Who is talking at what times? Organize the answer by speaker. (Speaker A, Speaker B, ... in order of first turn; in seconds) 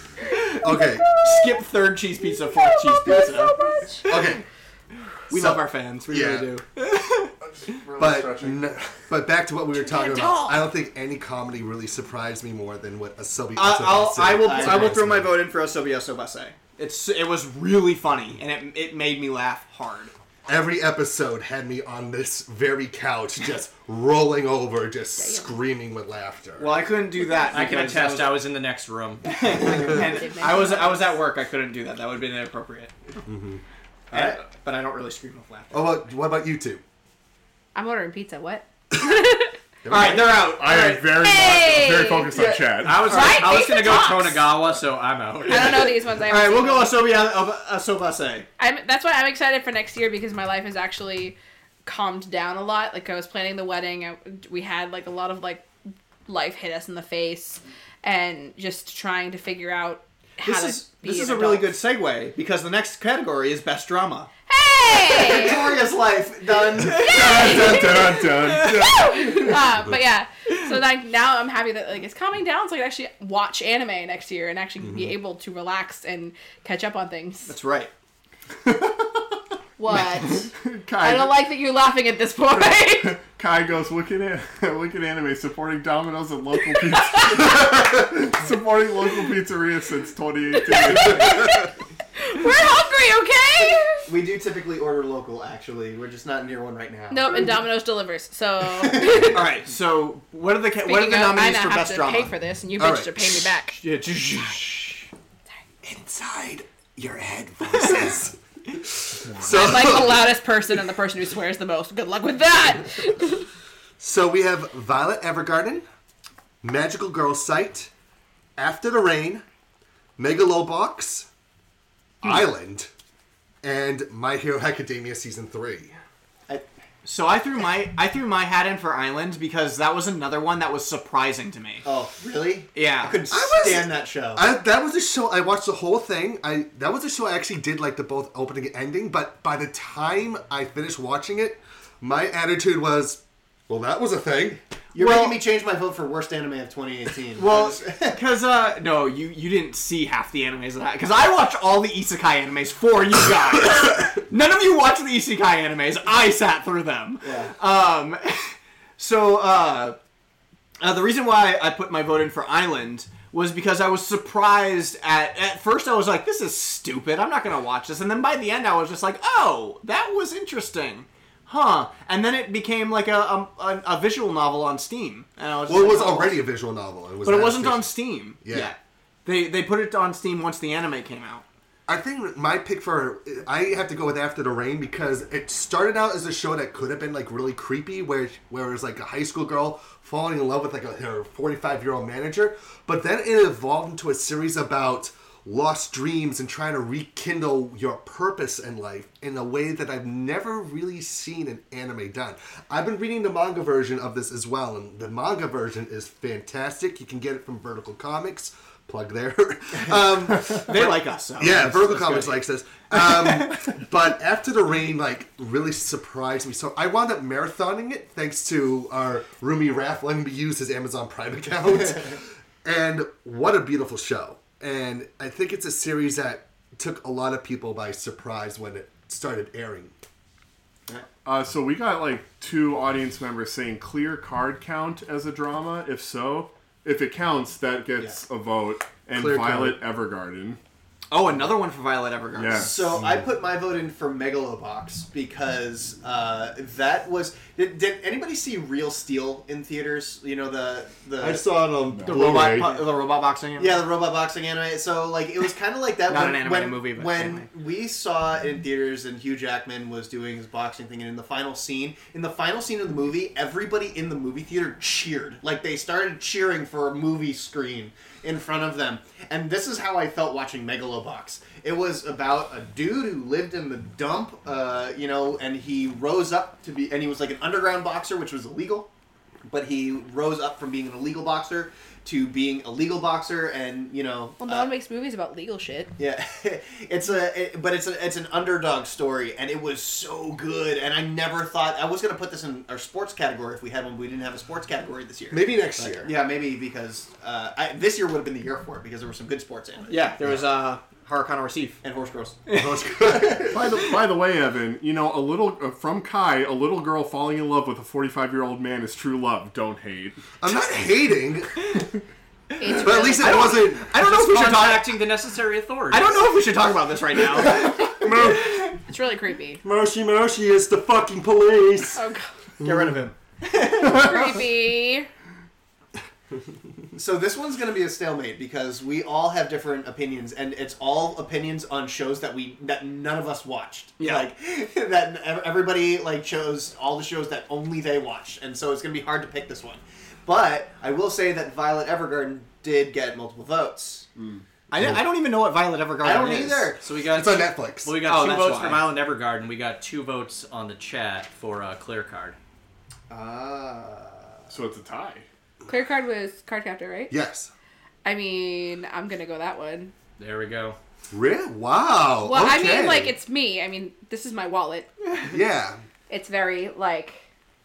Speaker A: 0.3-0.6, 1.2-3.5, 5.3-7.3, 13.6-20.1, 26.6-28.5, 29.2-32.9, 34.1-36.0, 39.9-41.1, 42.8-44.8, 45.5-48.5, 60.4-64.3, 67.1-67.7, 77.5-77.9, 99.3-102.3, 103.8-105.1, 127.0-131.8, 132.8-133.2, 144.9-145.4, 147.4-160.0, 160.8-176.4, 177.2-181.4, 210.6-213.8, 241.1-242.8, 252.1-253.8, 256.1-257.5, 299.9-301.8, 302.5-303.4, 312.9-315.0, 315.9-318.1, 322.6-324.1, 334.0-334.3, 344.7-346.7, 348.0-348.9
Speaker B: 0.6-1.1, 4.1-4.4, 5.3-6.5, 8.0-15.4, 20.5-26.9, 33.2-33.6, 35.7-36.8, 39.8-40.5, 74.8-75.1, 102.8-103.5, 105.8-108.4, 109.3-110.2, 114.0-115.8, 116.6-117.9, 118.6-119.4, 120.2-121.3, 122.2-122.9, 123.6-126.0, 133.3-144.6, 175.7-178.8, 181.9-229.9, 239.1-239.8, 251.2-252.7, 295.3-296.1, 302.6-303.6, 310.4-311.6, 312.7-314.1, 318.0-318.4, 319.6-322.0, 322.6-322.9, 347.1-348.0, 357.1-357.5, 361.1-363.1, 365.3-365.8
Speaker C: 1.1-1.4, 2.5-4.2, 9.7-10.7, 25.2-25.6, 29.6-31.2, 37.8-39.5, 41.1-44.4, 45.5-47.0, 48.6-55.7, 56.3-61.7, 64.5-65.6, 67.0-77.5, 79.8-80.5, 81.0-83.2, 90.5-94.0, 97.1-99.4, 100.9-103.8, 109.5-113.5, 284.4-285.9, 312.6-313.5, 318.9-319.6, 321.9-322.3, 323.8-325.1, 355.7-357.1, 358.0-359.9, 362.2-364.9, 366.1-367.2
Speaker D: 7.4-9.0, 40.4-43.1, 66.8-69.6, 78.7-79.2, 80.6-81.4, 83.0-91.6, 109.4-109.9, 231.2-240.6, 242.3-243.0, 251.9-252.4, 303.4-310.2, 344.2-344.4, 354.5-355.2
Speaker E: 14.3-15.0, 65.2-67.2, 94.1-97.7, 98.8-99.3, 131.8-134.5, 144.9-148.2, 157.2-157.5, 242.6-251.4, 252.6-252.9, 253.6-278.9, 279.5-284.7, 286.0-300.1, 301.8-302.4, 326.9-344.1, 346.0-346.8, 353.1-354.4
Speaker F: 27.5-29.2, 42.8-45.8, 314.0-316.2, 346.8-352.4, 360.2-360.8